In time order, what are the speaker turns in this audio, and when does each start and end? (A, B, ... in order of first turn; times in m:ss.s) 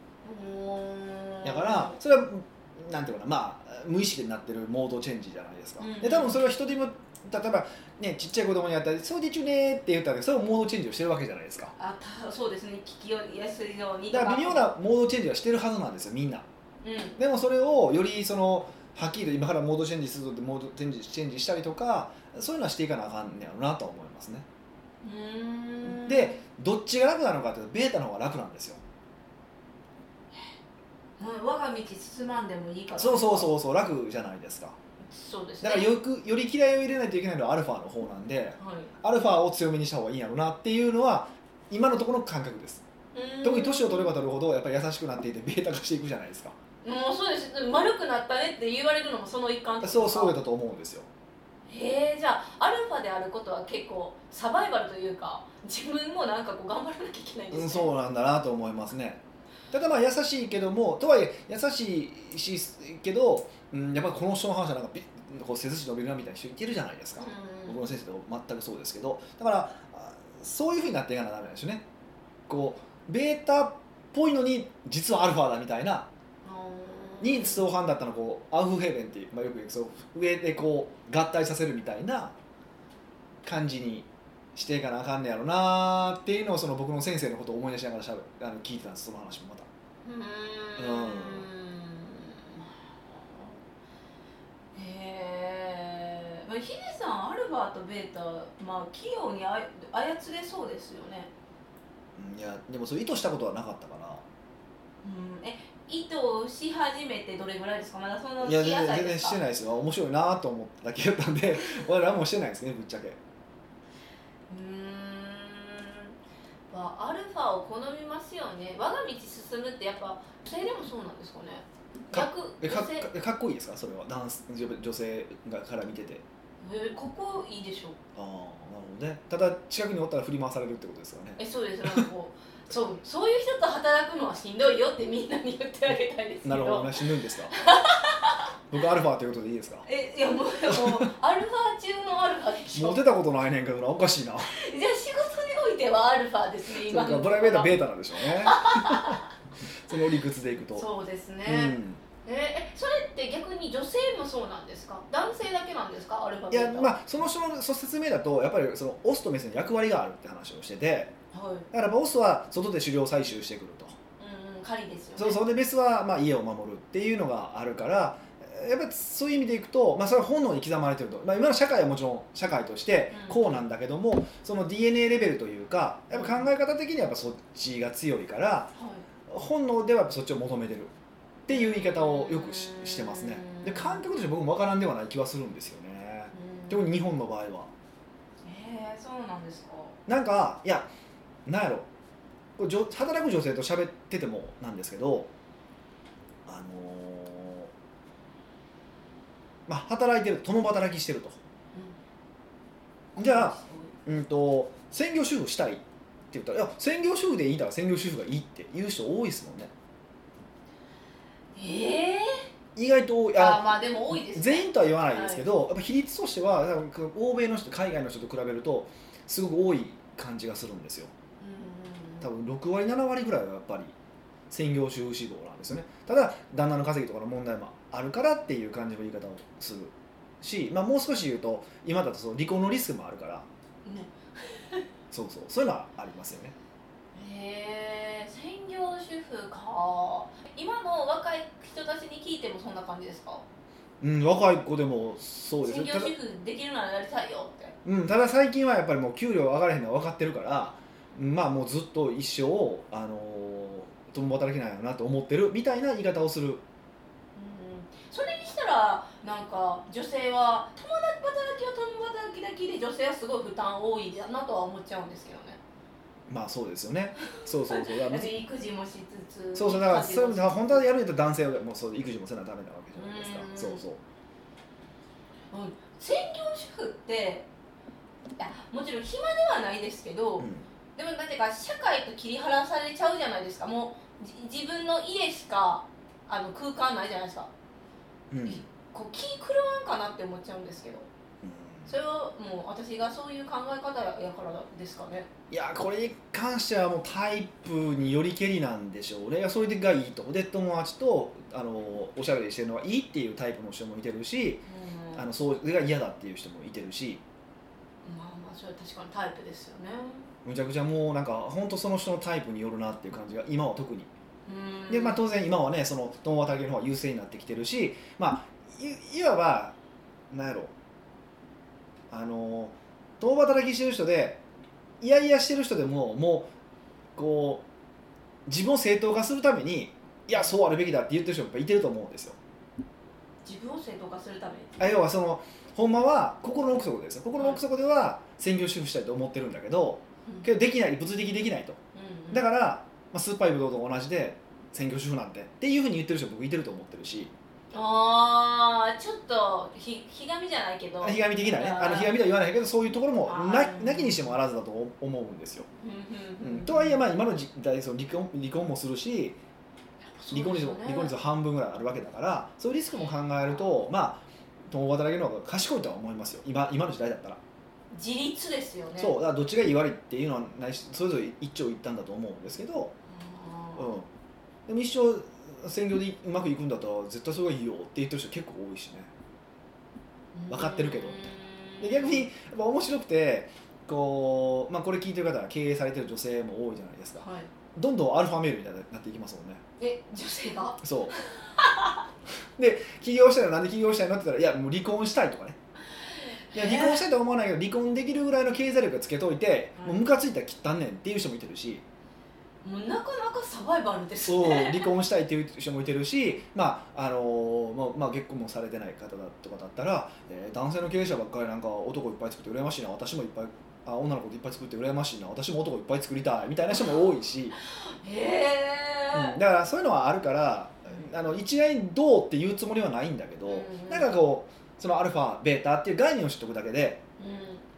0:00.2-0:02.0 A
0:01.4-0:11.7 B
0:05.8-0:06.4 A
0:11.8-0:14.7 A
0:14.1-0:16.5 B
0:16.8-0:17.2 A
0:17.2-0:24.4 B
0:25.0-0:26.4 A
0:25.8-0:28.8 B
0:31.2-0:33.5 A
0:33.0-0:34.8 B
0:35.1-0:35.9 A
0:35.6-0:42.8 B
0:38.6-0:38.9 A
0:43.1-0:44.1 A
0:43.4-0:46.6 B
0:46.8-0:50.4 A
0:49.8-0:51.1 B
0:51.7-0:57.9 A
0:57.5-1:11.8 B
1:07.2-1:07.8 A
1:12.5-1:16.1 B
1:16.4-1:17.6 A
1:17.2-1:22.4 B
1:23.4-1:29.7 B
1:30.0-1:33.6 A
1:30.8-1:31.5 B
1:34.7-1:41.3 A
1:42.2-1:44.2 B
1:45.0-1:49.4 A
1:48.4-1:53.2 B
1:54.5-1:56.1 A
1:56.7-2:03.1 A
2:02.1-2:06.2 B
2:06.6-2:08.0 A
2:08.1-2:12.1 B
2:11.4-2:16.9 A
2:16.4-2:17.6 B
2:17.5-2:18.5 A
2:18.7-2:19.9 B
2:19.9-2:23.0 A
2:20.7-2:21.1 B
2:22.7-2:24.6 B
2:24.5-2:29.3 A
2:26.7-2:29.2 B
2:29.7-2:30.9 B
2:30.8-2:37.2 A
2:31.5-2:32.0 B
2:36.5-2:41.1 B
2:41.3-2:41.7 A
2:41.7-2:44.0 B
2:44.2-2:45.4 A
2:45.2-2:58.7 B
2:53.1-2:53.6 A
2:56.1-2:56.5 A
2:58.8-2:59.0 A
2:59.3-3:00.9 B
3:01.5-3:07.7 B
3:01.5-3:04.0 A
3:06.3-3:06.8 A
3:08.4-3:10.0 A
3:10.1-3:10.9 B
3:11.5-3:11.9 B
3:12.6-3:15.3 B
3:16.5-3:17.7 B
3:19.7-3:21.4 B
3:23.1-3:24.0 A
3:23.2-3:29.7 B
3:31.5-3:32.5 A
3:32.8-3:41.1 B
3:33.4-3:35.4 A
3:41.4-3:42.3 A
3:42.2-3:44.0 B
3:44.5-3:53.5 B
3:53.8-3:54.9 A
3:55.1-3:56.5 B
3:57.1-4:03.4 A
4:04.0-4:06.1 B
4:05.6-4:07.8 A
4:07.8-4:16.6 B
4:17.4-4:25.6 A
4:26.3-4:28.3 B
4:27.7-4:30.9 A
4:29.5-4:34.0 B
4:33.0-4:33.8 A
4:35.5-4:37.5 A
4:38.4-4:47.5 A
4:40.4-4:40.6 B
4:48.3-4:48.6 B
4:48.5-4:51.1 A
4:51.4-4:51.9 B
4:51.9-4:55.3 A
4:55.5-5:07.2 B
5:04.7-5:05.2 A
5:08.0-5:10.3 A
5:10.4-5:14.1 B
5:14.5-5:15.2 A
5:14.9-5:19.8 B
5:20.3-5:20.7 B
5:22.1-5:24.4 B
5:25.0-5:26.5 B
5:27.2-5:27.6 B
5:28.5-5:32.4 B
5:33.4-5:34.8 A
5:34.8-5:41.8 B
5:41.9-5:42.4 A
5:42.3-5:47.3 B
5:47.7-5:52.2 A
5:51.0-5:55.7 B
5:53.3-5:54.4 A
5:55.8-5:57.0 A
5:56.4-5:59.4 B
6:00.0-6:01.1 A
6:00.3-6:07.4 B
6:07.9-6:09.2 A
6:09.0-6:12.9 B
6:13.1-6:13.9 A
6:13.8-6:14.1 B
6:14.7-6:19.1 B
6:20.4-6:22.2 A
6:20.5-6:21.2 B
6:21.8-6:29.6 B
6:27.2-6:27.5 A
6:29.8-6:32.0 A
6:30.8-6:31.2 B
6:32.6-6:35.6 B
6:36.0-6:37.0 A
6:36.5-6:41.8 B
6:42.6-6:44.9 A
6:44.2-6:57.6 B
6:57.8-6:59.4 A
6:59.1-7:07.0 B
7:03.5-7:04.1 A
7:07.2-7:07.6 A